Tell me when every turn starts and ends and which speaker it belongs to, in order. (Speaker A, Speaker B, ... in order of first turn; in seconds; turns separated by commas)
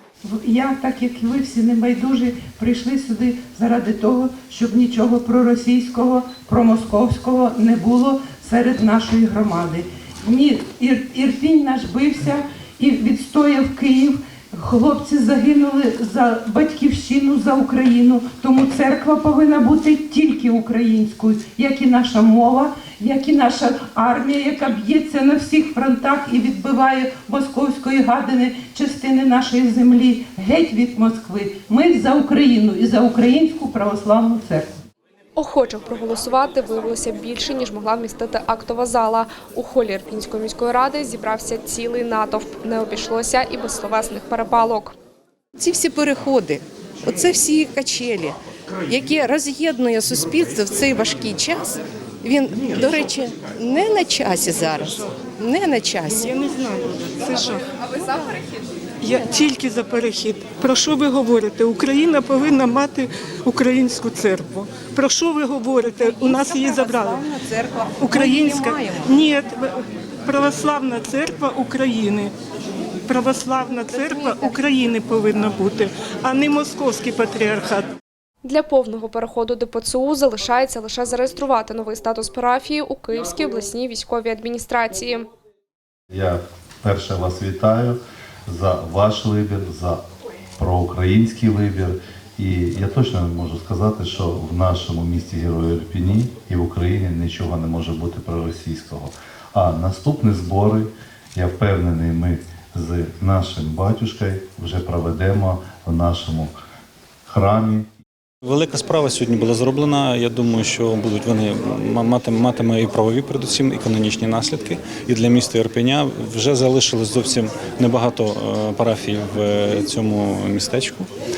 Speaker A: 0.2-34.7, Speaker B: 35.4-44.9, Speaker C: 45.6-48.4, Speaker C: 48.9-56.2, Speaker D: 56.2-57.7, Speaker D: 59.0-67.4, Speaker C: 66.1-69.1, Speaker D: 68.0-72.3, Speaker D: 73.1-77.9, Speaker C: 73.9-74.5, Speaker B: 78.4-85.2, Speaker E: 86.1-90.0, Speaker E: 90.6-106.5, Speaker E: 107.2-107.9, Speaker F: 108.4-121.1